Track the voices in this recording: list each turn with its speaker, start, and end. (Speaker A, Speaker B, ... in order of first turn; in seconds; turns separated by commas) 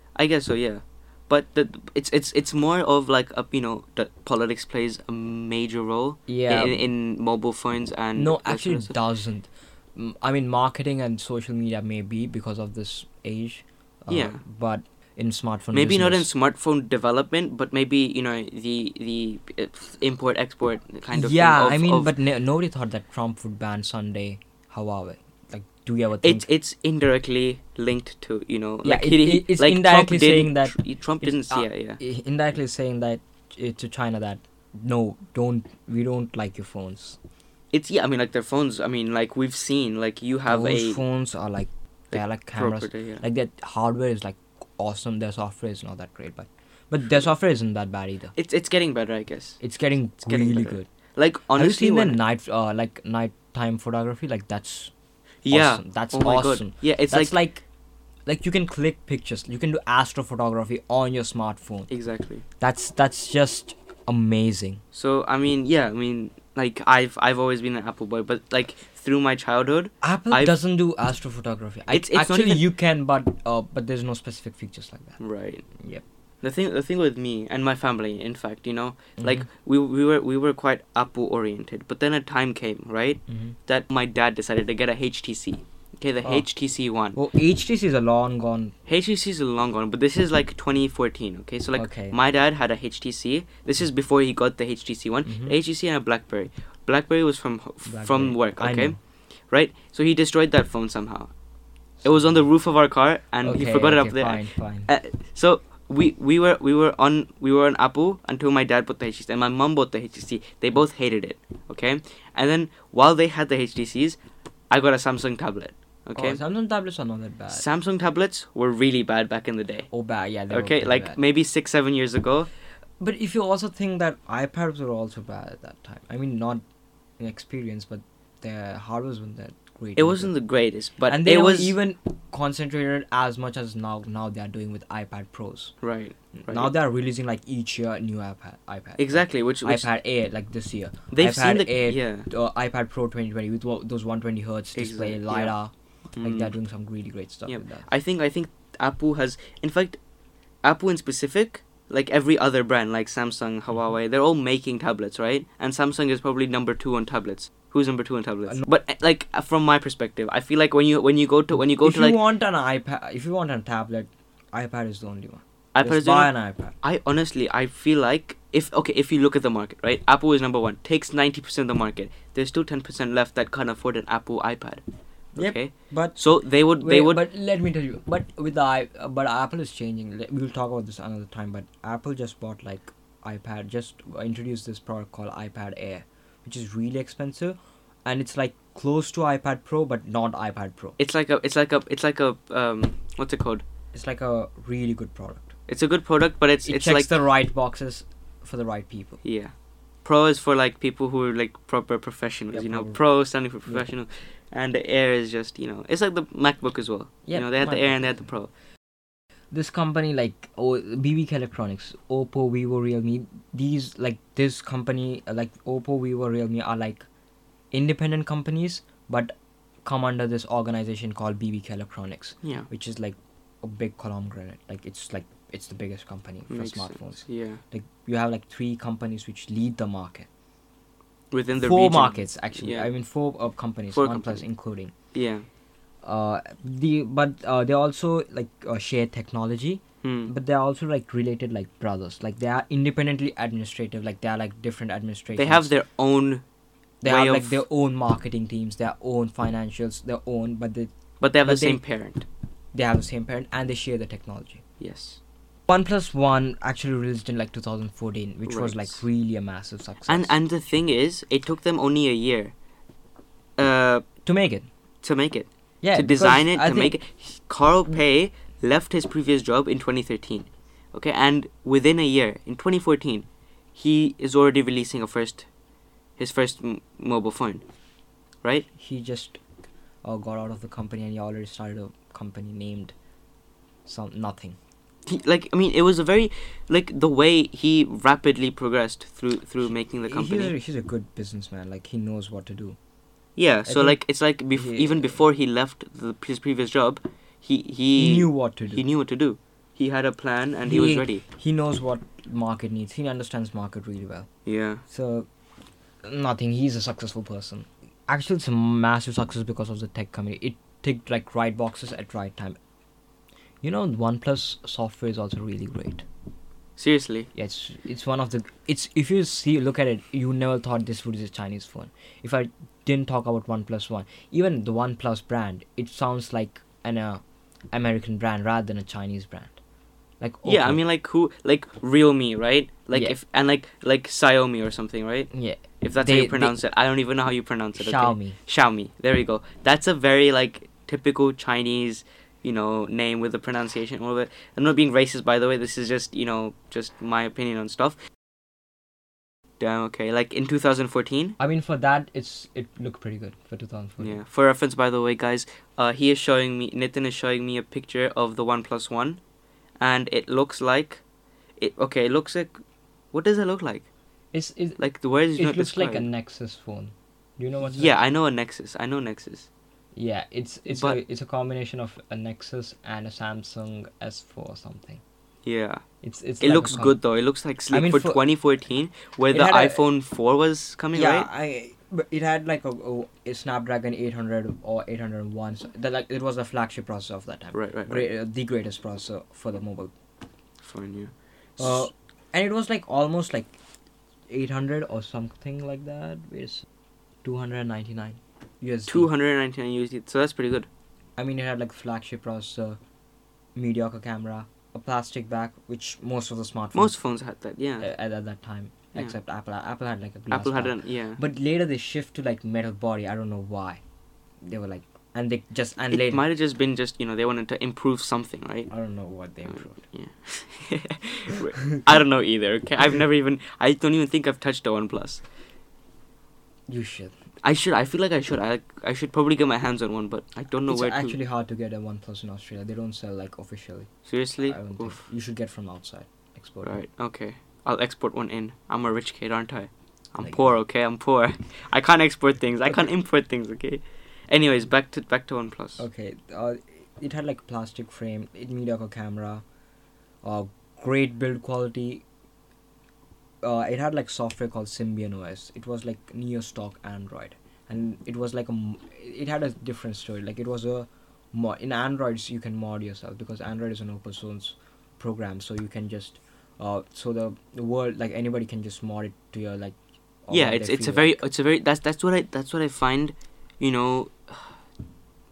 Speaker A: 0.1-8.9, Speaker B: 6.3-6.8, Speaker B: 8.2-16.3, Speaker A: 14.1-14.4, Speaker A: 15.7-22.1, Speaker B: 21.1-26.5, Speaker A: 26.2-32.0, Speaker B: 28.8-37.2, Speaker A: 37.7-41.0, Speaker B: 40.5-48.3, Speaker A: 42.1-43.2, Speaker A: 48.4-49.6, Speaker B: 49.6-50.9, Speaker A: 50.2-52.2, Speaker B: 51.5-54.9, Speaker A: 55.5-57.4, Speaker B: 55.5-57.6, Speaker B: 58.3-61.9, Speaker A: 61.9-62.4, Speaker B: 62.6-64.8, Speaker A: 64.9-70.5, Speaker B: 70.0-75.2, Speaker A: 71.9-72.7, Speaker A: 75.2-75.7, Speaker B: 75.8-76.0, Speaker A: 76.4-87.2, Speaker B: 79.2-79.5, Speaker B: 83.3-83.5, Speaker B: 87.1-88.7, Speaker A: 88.9-99.0, Speaker B: 91.8-92.2, Speaker B: 95.3-95.5, Speaker B: 97.9-99.0, Speaker A: 99.5-101.3, Speaker B: 102.0-102.3, Speaker A: 102.0-114.2, Speaker B: 103.4-104.9, Speaker A: 114.7-116.4, Speaker B: 116.2-117.6, Speaker A: 117.5-119.9, Speaker B: 119.9-121.2, Speaker A: 120.5-122.5, Speaker B: 123.0-126.6, Speaker B: 127.2-130.3, Speaker A: 130.0-131.8, Speaker B: 131.1-135.7, Speaker A: 135.8-136.7, Speaker B: 136.4-147.9, Speaker A: 139.0-139.9, Speaker A: 141.1-142.3, Speaker A: 144.8-145.6, Speaker A: 146.2-146.5, Speaker A: 147.5-150.0, Speaker A: 150.6-162.2, Speaker B: 161.8-166.8, Speaker A: 165.8-174.8, Speaker A: 175.3-177.2, Speaker B: 175.3-176.2, Speaker B: 176.8-191.0, Speaker A: 191.0-193.6, Speaker B: 193.9-195.6, Speaker A: 195.7-197.1, Speaker B: 196.7-199.2, Speaker A: 199.2-199.5, Speaker A: 200.1-208.5, Speaker B: 202.5-203.0, Speaker B: 207.3-208.3, Speaker B: 209.5-217.1, Speaker B: 217.7-230.3, Speaker A: 222.4-222.7, Speaker A: 226.5-227.6, Speaker A: 231.3-232.9, Speaker B: 231.6-234.9, Speaker A: 233.9-234.4, Speaker A: 235.1-235.5, Speaker B: 236.0-245.7, Speaker A: 240.0-240.3, Speaker A: 245.4-246.4, Speaker B: 247.0-250.9, Speaker A: 247.1-247.6, Speaker A: 251.2-252.3, Speaker B: 251.4-251.8, Speaker B: 252.7-254.6, Speaker A: 254.8-255.2, Speaker B: 255.7-260.3, Speaker A: 258.5-259.0, Speaker A: 260.1-262.5, Speaker A: 263.6-264.0, Speaker B: 264.3-264.7, Speaker A: 265.0-275.5, Speaker B: 265.8-267.0, Speaker A: 276.2-277.6, Speaker B: 278.8-279.4, Speaker B: 280.0-282.9, Speaker B: 283.9-284.6, Speaker A: 285.1-290.5, Speaker B: 290.1-292.8, Speaker A: 293.4-301.2, Speaker B: 293.7-294.0, Speaker B: 294.5-295.2, Speaker B: 298.0-298.8, Speaker B: 300.6-304.3, Speaker A: 304.5-304.8, Speaker B: 304.9-305.3, Speaker B: 306.0-312.6, Speaker B: 313.6-316.1, Speaker A: 316.8-317.3, Speaker B: 317.4-329.6, Speaker B: 330.2-330.8, Speaker A: 330.4-335.3, Speaker B: 335.3-336.6, Speaker A: 335.8-348.0, Speaker B: 337.8-338.4, Speaker A: 349.6-351.4, Speaker B: 351.4-354.2, Speaker A: 354.0-359.2, Speaker A: 359.8-361.0, Speaker A: 361.6-362.6, Speaker A: 363.1-363.9, Speaker B: 364.3-364.8, Speaker A: 364.8-366.1, Speaker B: 365.4-368.0, Speaker A: 367.6-369.5, Speaker B: 369.9-375.0, Speaker A: 370.7-371.0, Speaker A: 375.4-375.8, Speaker B: 376.0-377.0, Speaker A: 376.4-381.3, Speaker B: 377.7-378.2, Speaker B: 379.3-379.8, Speaker B: 380.9-389.9, Speaker A: 387.5-388.1, Speaker A: 390.6-391.8, Speaker B: 391.6-393.6, Speaker B: 394.3-396.7, Speaker B: 397.2-399.1, Speaker A: 398.9-400.7, Speaker B: 401.2-402.8, Speaker B: 403.6-406.9, Speaker A: 406.7-407.9, Speaker B: 407.8-413.8, Speaker A: 410.3-411.2, Speaker B: 414.4-416.2, Speaker A: 415.9-418.7, Speaker B: 418.7-419.8, Speaker A: 419.5-425.2, Speaker B: 426.7-427.1, Speaker A: 427.4-431.2, Speaker B: 430.7-433.9, Speaker A: 434.1-435.0, Speaker B: 434.4-436.8, Speaker A: 436.6-445.8, Speaker B: 440.2-440.5, Speaker B: 445.8-449.4, Speaker B: 450.2-452.0, Speaker B: 453.4-471.2, Speaker A: 470.3-474.6